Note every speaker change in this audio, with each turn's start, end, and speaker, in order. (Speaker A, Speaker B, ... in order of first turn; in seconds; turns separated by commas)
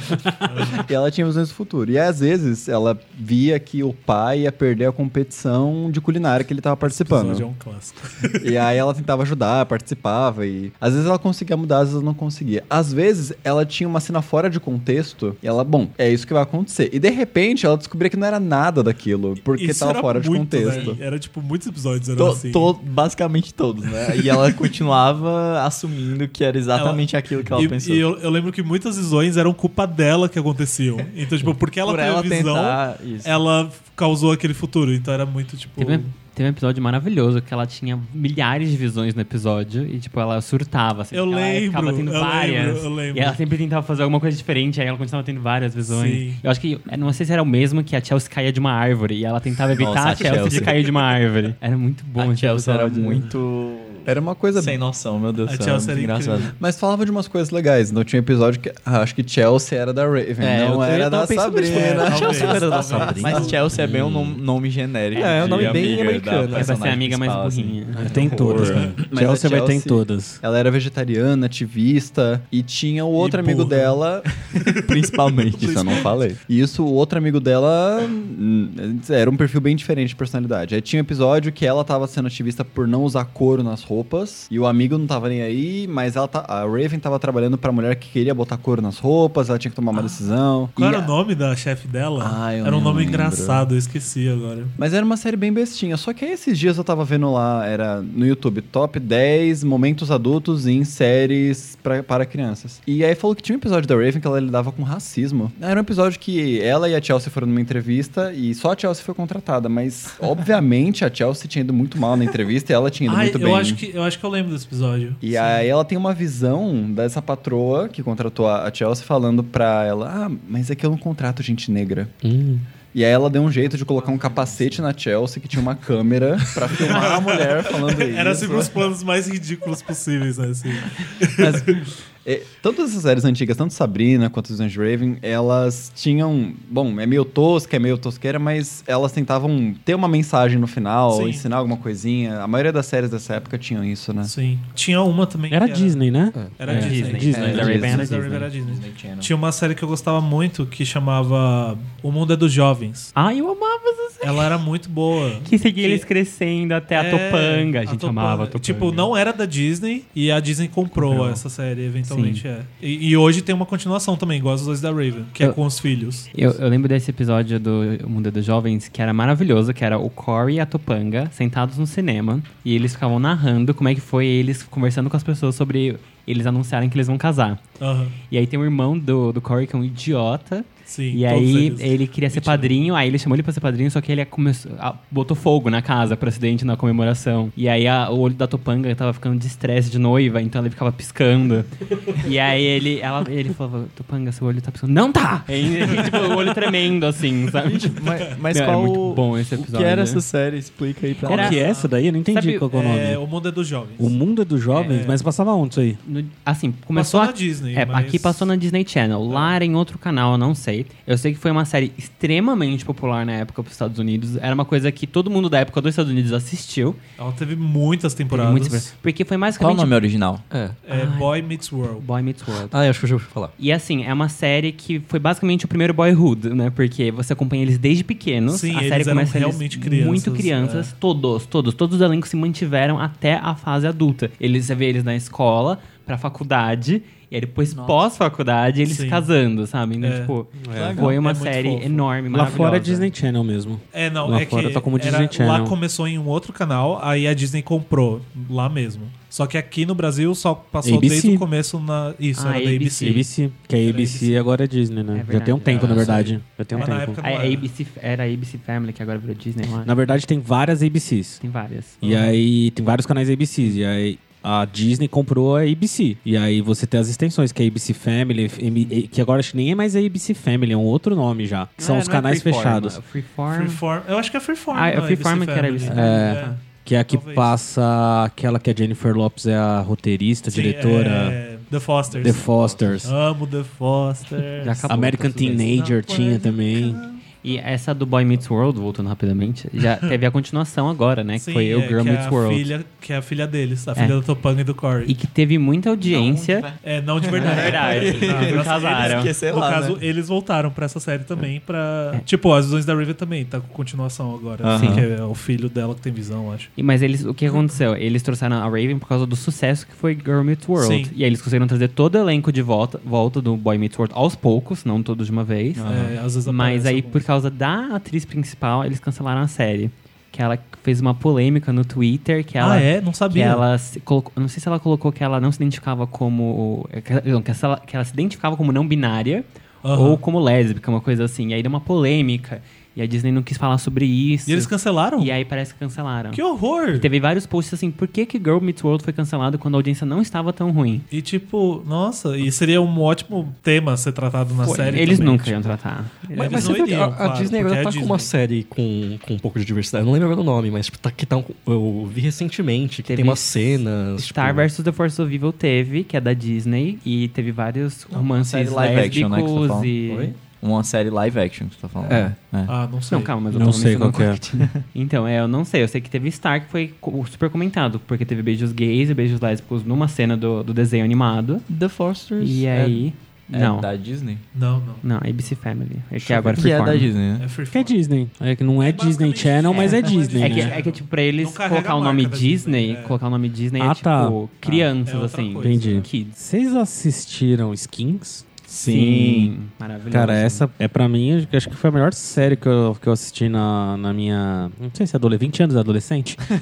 Speaker A: 0.5-0.8, Speaker B: 0.6-7.5, Speaker A: 6.8-8.5, Speaker B: 8.4-21.0, Speaker A: 19.5-22.7, Speaker C: 20.7-21.0, Speaker C: 22.2-28.1, Speaker A: 26.7-36.1, Speaker C: 31.8-33.4, Speaker D: 35.8-53.3, Speaker A: 41.1-43.4, Speaker A: 45.9-46.4, Speaker C: 49.7-51.0, Speaker C: 52.2-56.5, Speaker B: 54.0-54.8, Speaker A: 55.5-56.6, Speaker B: 56.6-63.5, Speaker E: 60.4-64.4, Speaker A: 61.6-63.6, Speaker C: 63.2-68.9, Speaker E: 65.1-66.8, Speaker D: 65.2-65.9, Speaker D: 66.5-68.1, Speaker F: 68.0-70.4, Speaker E: 68.1-68.8, Speaker A: 68.6-68.9, Speaker B: 69.0-74.4, Speaker A: 73.2-74.0, Speaker C: 74.7-76.1, Speaker B: 75.5-91.1, Speaker A: 75.5-76.1, Speaker A: 90.8-94.8, Speaker B: 92.2-93.7, Speaker B: 94.8-113.8, Speaker A: 113.1-115.7, Speaker B: 115.2-122.1, Speaker E: 122.2-122.7, Speaker B: 122.9-128.8, Speaker C: 123.8-124.8, Speaker A: 126.5-131.8, Speaker C: 126.9-127.3, Speaker B: 131.4-144.3, Speaker A: 141.1-141.5, Speaker A: 144.2-153.1, Speaker F: 145.5-148.4, Speaker E: 146.3-146.6, Speaker D: 146.7-148.3, Speaker C: 147.4-148.0, Speaker C: 148.6-149.3, Speaker D: 153.2-154.6, Speaker A: 154.2-156.1, Speaker D: 155.4-159.1, Speaker A: 156.9-166.3, Speaker D: 161.0-161.4, Speaker D: 162.1-162.4, Speaker D: 166.3-177.6, Speaker A: 177.8-178.2, Speaker D: 178.3-200.2, Speaker A: 180.9-182.8, Speaker A: 195.9-196.5, Speaker C: 197.7-201.6, Speaker D: 201.2-201.6, Speaker F: 201.3-203.2, Speaker A: 201.4-201.9, Speaker D: 202.3-202.7, Speaker A: 202.7-204.2, Speaker F: 204.0-206.0, Speaker A: 204.9-205.2, Speaker D: 206.0-217.0, Speaker A: 206.9-208.5, Speaker A: 209.3-209.6, Speaker A: 217.2-218.9, Speaker D: 218.3-219.9, Speaker C: 219.6-220.4, Speaker E: 220.5-220.8, Speaker A: 220.9-222.1, Speaker D: 220.9-222.8, Speaker E: 222.7-223.5, Speaker D: 223.6-243.1, Speaker A: 228.5-230.9, Speaker C: 237.7-238.0, Speaker A: 238.9-239.3, Speaker A: 240.0-240.3, Speaker F: 240.6-241.1, Speaker C: 240.7-241.1, Speaker A: 241.0-242.1, Speaker F: 242.3-245.8, Speaker A: 243.9-253.2, Speaker F: 250.8-251.4, Speaker D: 252.4-253.2, Speaker F: 252.9-257.2, Speaker A: 253.8-254.5, Speaker D: 255.1-259.9, Speaker A: 255.7-257.7, Speaker F: 259.8-261.4, Speaker D: 261.4-262.4, Speaker F: 262.0-273.0, Speaker D: 271.8-273.8, Speaker A: 273.5-277.5, Speaker D: 274.7-276.6, Speaker F: 275.8-281.4, Speaker A: 280.5-282.4, Speaker F: 282.2-283.1, Speaker C: 282.3-283.1, Speaker A: 283.0-284.9, Speaker D: 284.6-285.7, Speaker F: 284.9-287.0, Speaker A: 285.5-287.2, Speaker D: 287.4-292.7, Speaker A: 291.4-295.1, Speaker D: 295.1-296.7, Speaker C: 296.1-300.0, Speaker A: 296.8-306.7, Speaker D: 297.3-299.3, Speaker C: 304.6-305.1, Speaker D: 304.8-305.1, Speaker D: 306.8-315.9, Speaker A: 310.8-311.1, Speaker C: 315.8-316.2, Speaker A: 315.9-317.2, Speaker D: 316.5-341.1, Speaker A: 322.6-323.7, Speaker A: 329.8-330.2, Speaker A: 334.5-335.3, Speaker A: 336.3-337.1, Speaker A: 341.1-345.6, Speaker D: 344.6-346.8, Speaker E: 346.4-354.7, Speaker A: 346.4-348.3, Speaker D: 353.1-360.3, Speaker C: 358.1-362.7, Speaker E: 362.1-362.4, Speaker A: 362.7-363.4, Speaker D: 363.1-371.7, Speaker F: 363.5-364.6, Speaker C: 364.5-364.8, Speaker C: 371.7-374.4, Speaker D: 372.4-373.9, Speaker A: 374.5-375.5, Speaker D: 375.0-377.1, Speaker C: 376.2-377.5, Speaker A: 377.4-378.0, Speaker F: 377.7-380.8, Speaker A: 378.8-383.2, Speaker D: 379.7-386.4, Speaker F: 383.8-384.9, Speaker A: 385.0-386.1, Speaker F: 385.6-388.5, Speaker C: 388.7-389.5, Speaker D: 388.9-390.6, Speaker F: 390.1-396.4